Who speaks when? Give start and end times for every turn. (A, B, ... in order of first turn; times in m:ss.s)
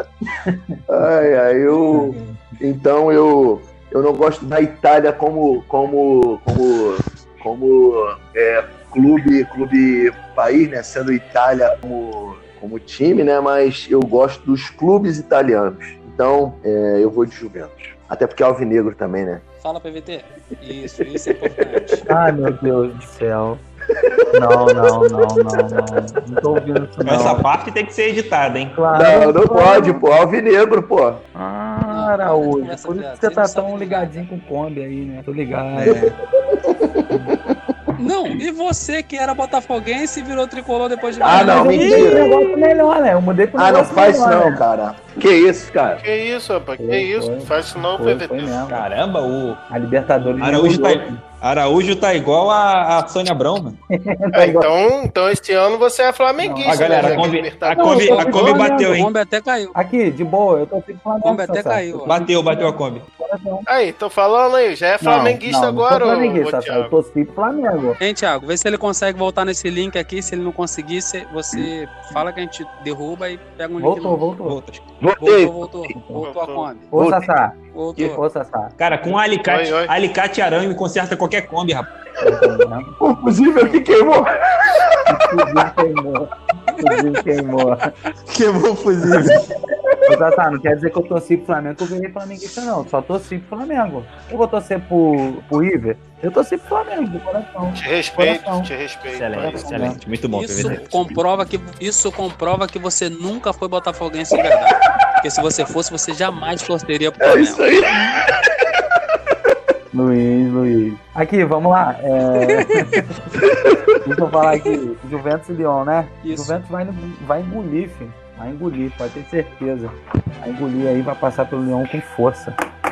0:00.9-0:19.4 A
0:01.9-0:02.3 B
0:19.6-0:22.1 C
0:21.0-0:22.0 A
0:22.1-0:23.6 B
0:24.0-0:25.1 A
0:24.3-0:27.5 B
0:27.0-0:28.8 D
0:28.7-0:30.2 B
0:28.9-0:31.2 A
0:31.4-0:36.2 B
0:31.9-0:34.3 C
0:35.8-0:37.6 A
0:37.1-0:37.4 B
0:38.0-0:42.2 C
0:41.2-0:42.8 A
0:41.2-0:44.6 B
0:43.6-0:46.0 A
0:46.0-0:48.6 E
0:46.8-0:48.9 B
0:48.7-0:49.6 D
0:49.7-0:51.2 B
0:50.4-0:53.8 D
0:53.9-0:54.7 B
0:54.3-0:58.5 E
0:56.4-0:59.1 B
0:56.6-0:59.1 D
0:57.9-0:59.8 C
0:59.8-1:03.7 B
1:01.2-1:02.2 C
1:02.1-1:03.1 D
1:03.7-1:06.9 E
1:05.0-1:08.0 B
1:08.0-1:14.3 C
1:13.8-1:14.6 B
1:14.4-1:14.8 D
1:15.0-1:15.6 A
1:15.2-1:16.9 C
1:16.2-1:16.8 E
1:16.9-1:18.7 B
1:17.0-1:17.3 A
1:17.7-1:18.2 C
1:18.8-1:21.9 D
1:19.4-1:19.9 E
1:22.2-1:23.0 B
1:23.0-1:25.4 A
1:23.6-1:23.8 E
1:25.1-1:27.9 B
1:28.3-1:29.5 D
1:30.1-1:38.7 B
1:37.8-1:39.6 E
1:39.2-1:40.8 D
1:39.4-1:40.0 B
1:40.3-1:47.6 C
1:47.2-1:48.4 A
1:49.9-1:53.0 B
1:52.4-1:53.0 C
1:53.4-1:53.8 A
1:54.0-2:02.6 B
1:56.2-1:56.6 C